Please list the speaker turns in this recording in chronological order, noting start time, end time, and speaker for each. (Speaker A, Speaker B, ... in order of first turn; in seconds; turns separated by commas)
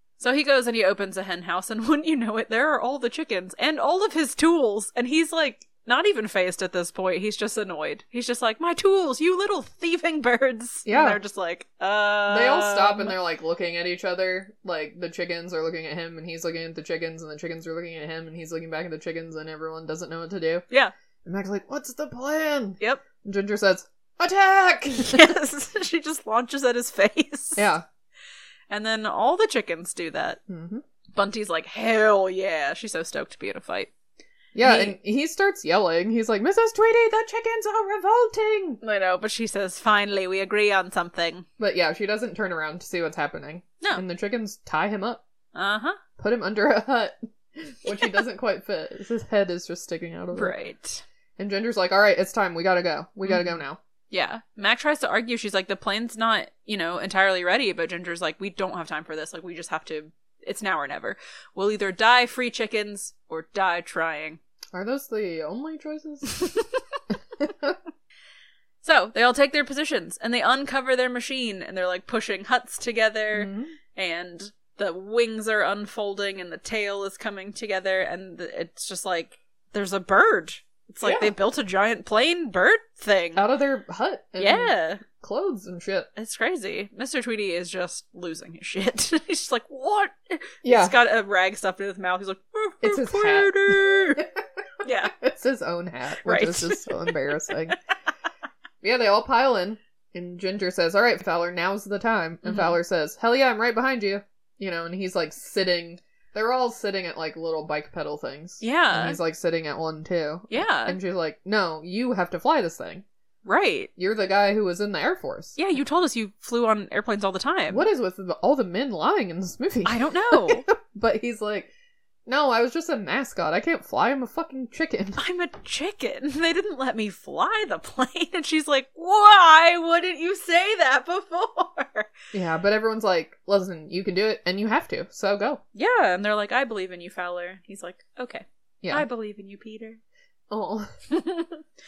Speaker A: 0.2-13.2, Speaker B: 10.9-11.2, Speaker B: 12.3-20.6, Speaker B: 21.2-25.2, Speaker A: 25.0-27.7, Speaker B: 27.6-27.9, Speaker A: 28.7-30.4, Speaker B: 30.5-30.8, Speaker A: 31.1-33.9, Speaker B: 34.5-38.8, Speaker A: 34.6-35.0, Speaker A: 38.8-41.5, Speaker B: 41.6-45.2, Speaker A: 45.5-46.0, Speaker B: 46.2-50.5, Speaker A: 50.3-51.0, Speaker B: 51.4-53.8, Speaker A: 53.2-64.4, Speaker B: 64.7-66.5, Speaker A: 66.3-66.6, Speaker B: 67.4-67.8, Speaker A: 68.8-83.4, Speaker B: 73.3-73.8, Speaker B: 81.0-81.3, Speaker B: 83.4-86.1, Speaker A: 84.4-85.0, Speaker A: 86.2-94.2, Speaker B: 90.6-91.0, Speaker B: 92.8-94.3, Speaker A: 94.8-95.1, Speaker B: 95.2-97.8, Speaker A: 96.2-97.7, Speaker B: 98.8-113.0, Speaker A: 102.4-102.8, Speaker A: 108.6-109.2, Speaker A: 110.5-111.0, Speaker A: 113.5-113.9, Speaker B: 114.0-115.6, Speaker A: 115.6-117.9, Speaker B: 117.7-121.7, Speaker A: 119.8-120.7, Speaker B: 122.3-125.2, Speaker A: 125.2-132.1, Speaker B: 132.3-135.6, Speaker A: 135.7-140.0, Speaker B: 140.5-140.9, Speaker A: 141.1-141.6